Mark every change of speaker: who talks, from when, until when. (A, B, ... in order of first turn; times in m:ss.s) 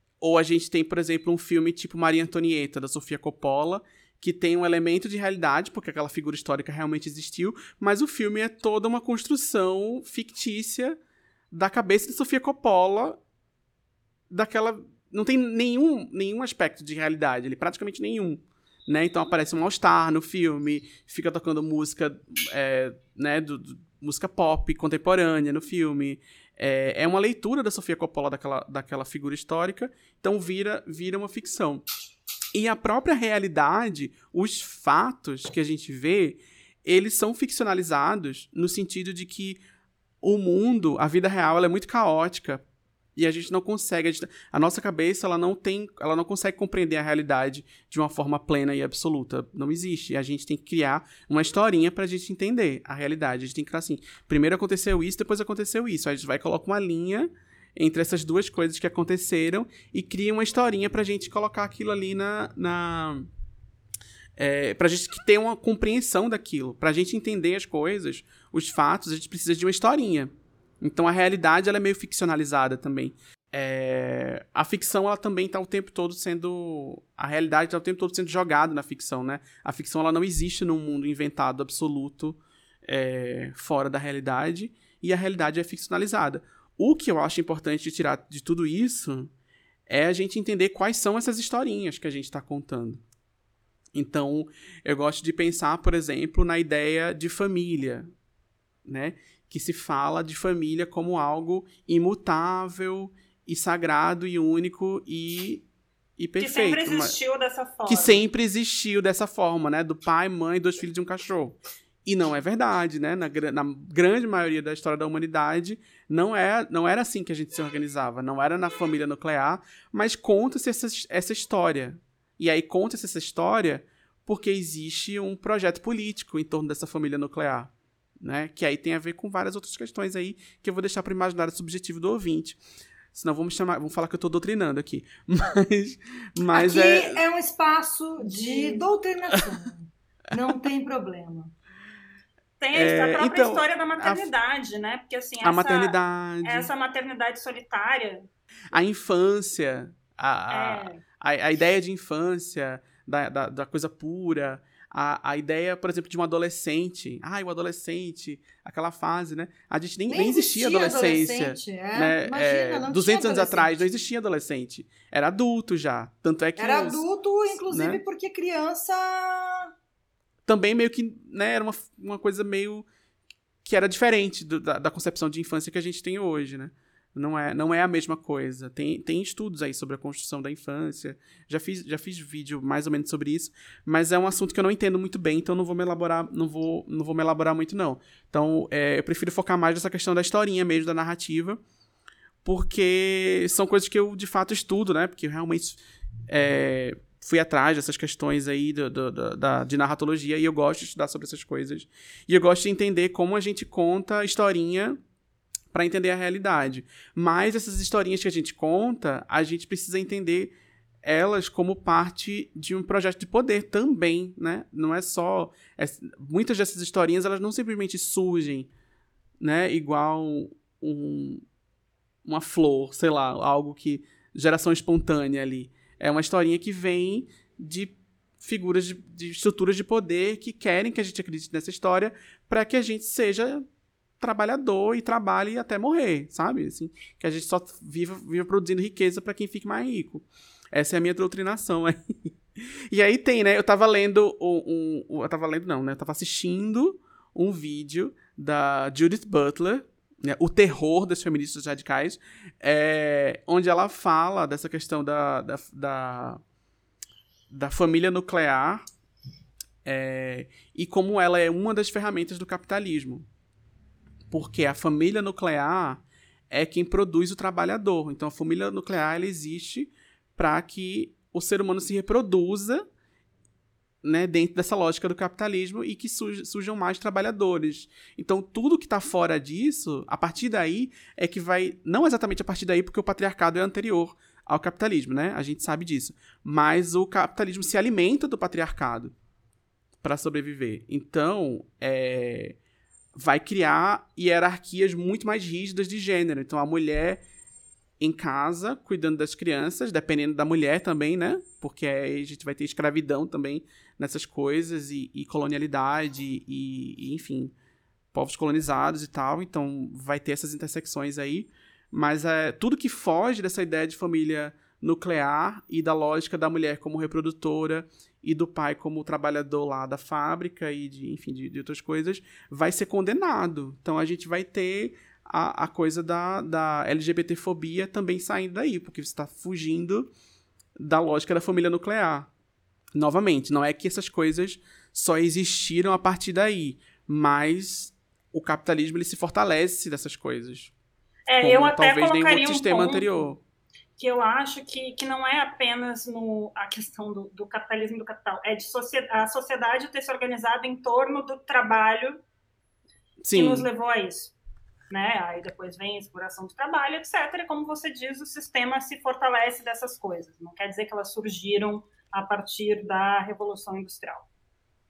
0:00.2-0:11.0 A
0:11.5-0:13.2 A
0:14.3-0:31.8 A
0:32.5-0:39.6 A
0:40.2-0:42.6 A
0:43.2-1:03.3 A
1:04.4-1:29.3 A
1:29.9-1:33.0 A
1:33.9-1:38.1 A
1:38.8-1:45.6 A
1:46.2-1:47.2 A
1:46.4-1:48.2 B
1:47.8-2:12.6 A
2:13.1-2:17.2 A
2:16.5-2:21.5 C
2:18.2-2:18.8 B
2:22.6-2:28.3 B
2:22.7-2:24.3 A
2:25.4-2:26.7 A
2:28.7-2:47.0 A
2:30.5-2:31.0 B
2:40.1-2:43.8 C
2:46.6-2:49.7 C
2:47.7-2:48.0 A
2:50.4-2:52.9 A
2:53.6-3:11.6 A
3:12.4-3:25.0 A
3:25.7-3:30.5 A
3:31.0-3:38.7 A
3:39.4-3:41.4 A
3:42.2-3:53.6 A
3:54.2-4:16.4 A
4:17.5-4:18.8 A
4:19.8-4:23.3 A
4:24.3-4:32.8 A
4:34.0-4:49.1 A
4:50.0-4:52.6 A
4:53.1-4:57.2 A
4:58.0-5:07.5 A
5:08.1-5:30.1 A
5:30.8-5:32.3 A
5:33.0-5:40.7 A
5:41.3-5:43.1 B
5:41.4-5:43.4 A
5:44.0-5:52.2 B
5:53.2-5:53.7 A
5:53.3-5:54.3 B
5:54.9-6:04.3 B